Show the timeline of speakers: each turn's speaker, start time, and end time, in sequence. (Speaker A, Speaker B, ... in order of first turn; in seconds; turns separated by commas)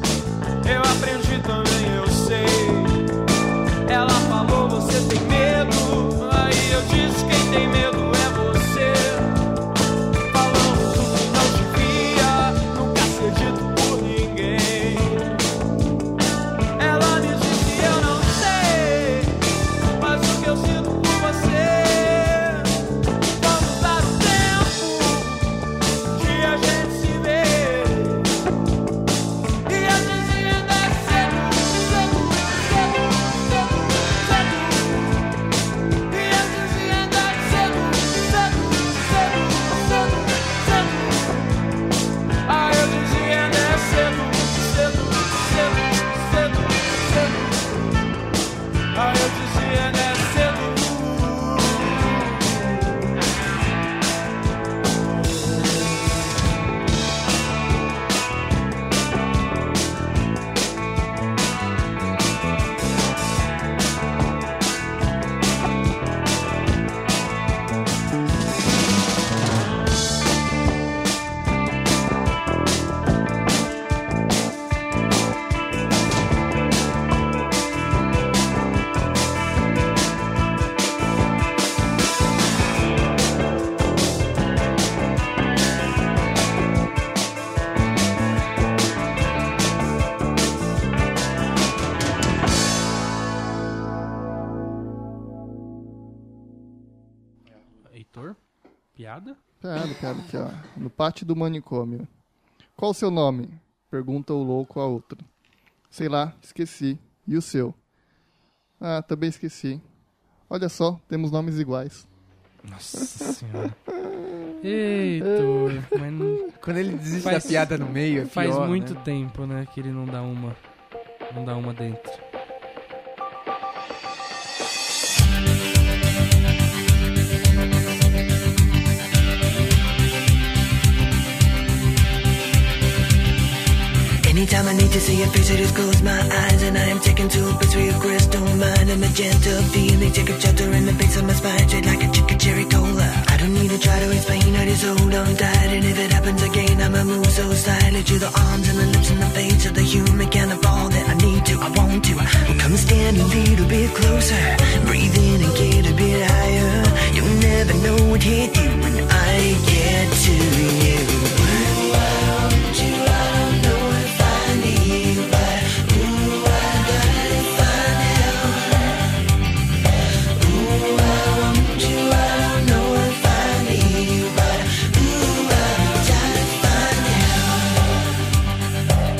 Speaker A: 0.6-3.1, Speaker A: 3.9-9.5, Speaker A: 10.3-15.6, Speaker A: 16.8-28.4, Speaker A: 29.7-35.3, Speaker A: 36.1-41.7, Speaker A: 42.5-48.1, Speaker A: 48.9-53.0, Speaker A: 55.2-56.3, Speaker B: 97.9-98.4, Speaker B: 99.0-99.4, Speaker C: 99.6-102.1, Speaker C: 102.8-105.3, Speaker C: 105.9-107.8, Speaker C: 108.8-109.8, Speaker C: 110.5-112.1, Speaker B: 112.6-113.8, Speaker B: 114.6-116.5, Speaker C: 115.3-115.9, Speaker D: 116.6-119.0, Speaker B: 117.2-120.6, Speaker B: 121.3-122.2, Speaker E: 134.2-169.0, Speaker E: 170.3-177.9